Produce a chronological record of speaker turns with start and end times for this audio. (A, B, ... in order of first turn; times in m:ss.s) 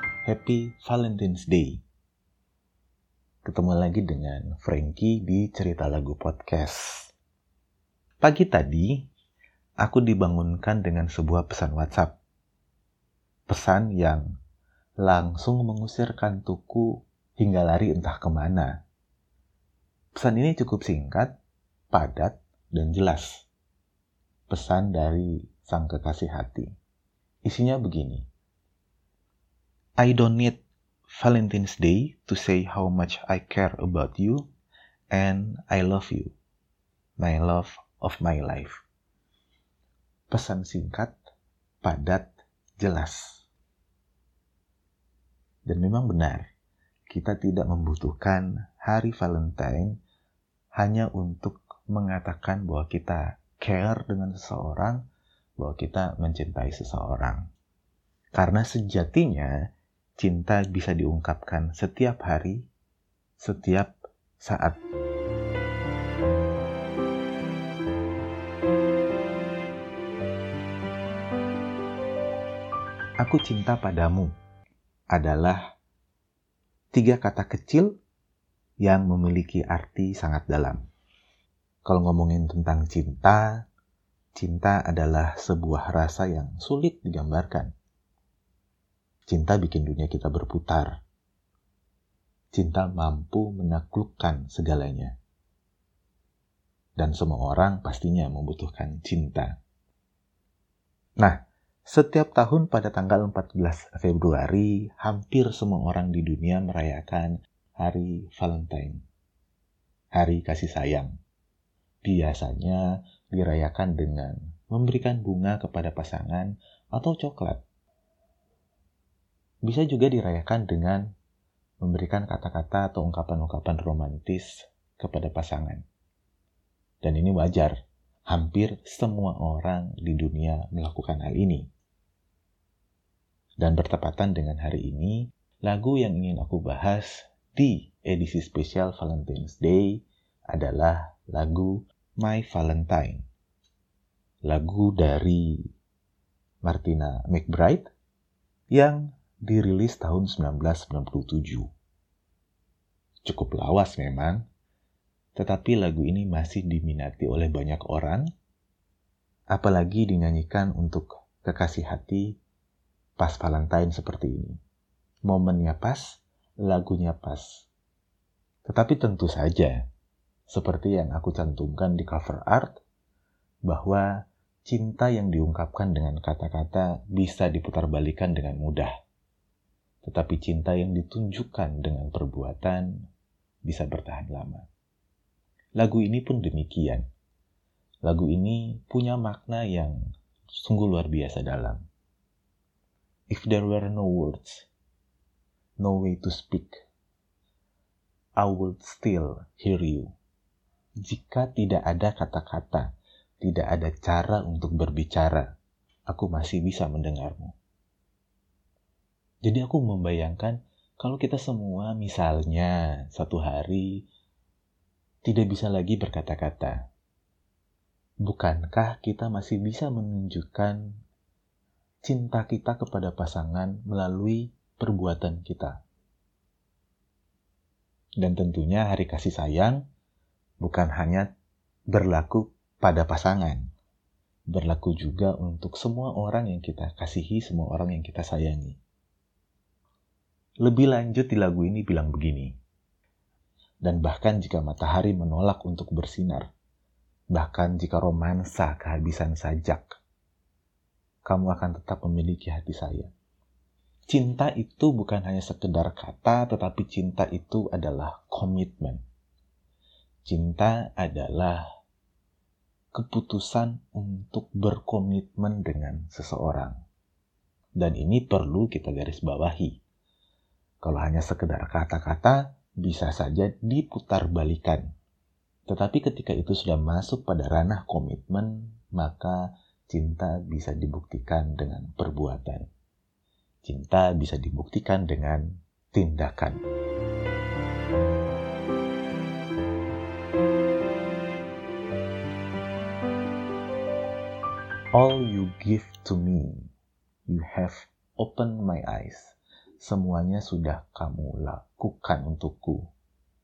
0:00.2-0:01.8 A
0:03.4-0:07.1 A
0:08.2-0:09.1 A
0:09.8-0:12.1 A
0:13.5-0:14.3 A
0:15.0-0:18.8 A
0:20.2-0:21.3 A
0:21.9-0:23.5 A
0:24.5-0:26.7 A
0:27.4-0:28.2 A
0:30.0-0:34.4 A
0:35.1-0:36.3 A
0:37.2-0:38.8 A
0:40.3-0:41.2 A
0:41.8-0:43.5 A
0:45.7-0:46.4 A
0:47.1-0:49.9 A
0:50.8-0:55.0 A
0:55.6-0:57.4 A
0:58.3-0:59.6 A
1:00.2-1:02.7 A
1:03.4-1:04.8 A
1:13.2-1:14.3 A
1:15.1-1:15.6 A
1:16.9-1:17.9 A
1:18.8-1:20.8 A
1:21.8-1:23.5 A
1:24.4-1:27.7 A
1:29.3-1:31.0 A
1:32.5-1:35.1 A
1:37.0-1:39.5 A
1:41.2-1:49.0 A
1:50.1-1:51.1 A
1:52.0-1:57.6 A
1:59.6-2:01.0 A
2:01.8-2:05.8 A
2:07.0-2:07.7 A
2:08.3-2:11.6 A
2:13.6-2:20.0 A
2:20.5-2:23.2 A
2:24.4-2:25.6 A
2:26.6-2:27.9 A
2:28.7-2:31.7 A
2:33.2-2:34.4 A
2:35.4-2:38.3 A
2:39.5-2:42.3 A
2:43.2-2:44.6 A
2:45.3-2:47.7 A
2:48.6-2:49.8 A
2:50.5-2:52.8 A
2:53.6-2:54.1 A
2:54.6-2:58.9 A
3:00.0-3:02.9 A
3:03.6-3:04.6 A
3:05.8-3:07.0 A
3:08.0-3:10.0 A
3:10.6-3:11.8 A
3:13.3-3:14.7 A
3:15.8-3:16.8 A
3:18.4-3:20.1 A
3:21.0-3:22.9 A
3:23.4-3:25.5 A
3:26.1-3:27.5 A
3:29.4-3:34.0 A
3:35.2-3:36.8 A
3:38.2-3:40.8 A
3:42.0-3:45.8 A
3:48.2-3:49.8 A
3:50.6-3:51.3 A
3:51.9-3:53.7 A
3:54.5-3:58.8 A
4:00.6-4:02.5 A
4:03.8-4:06.4 A
4:07.3-4:10.0 A
4:11.2-4:13.1 A
4:14.1-4:19.0 A
4:20.2-4:21.6 A
4:22.9-4:26.7 A
4:27.8-4:29.8 A
4:30.8-4:34.9 A
4:35.7-4:42.6 A
4:43.6-4:46.6 A
4:54.9-4:56.7 A
4:57.3-5:02.8 A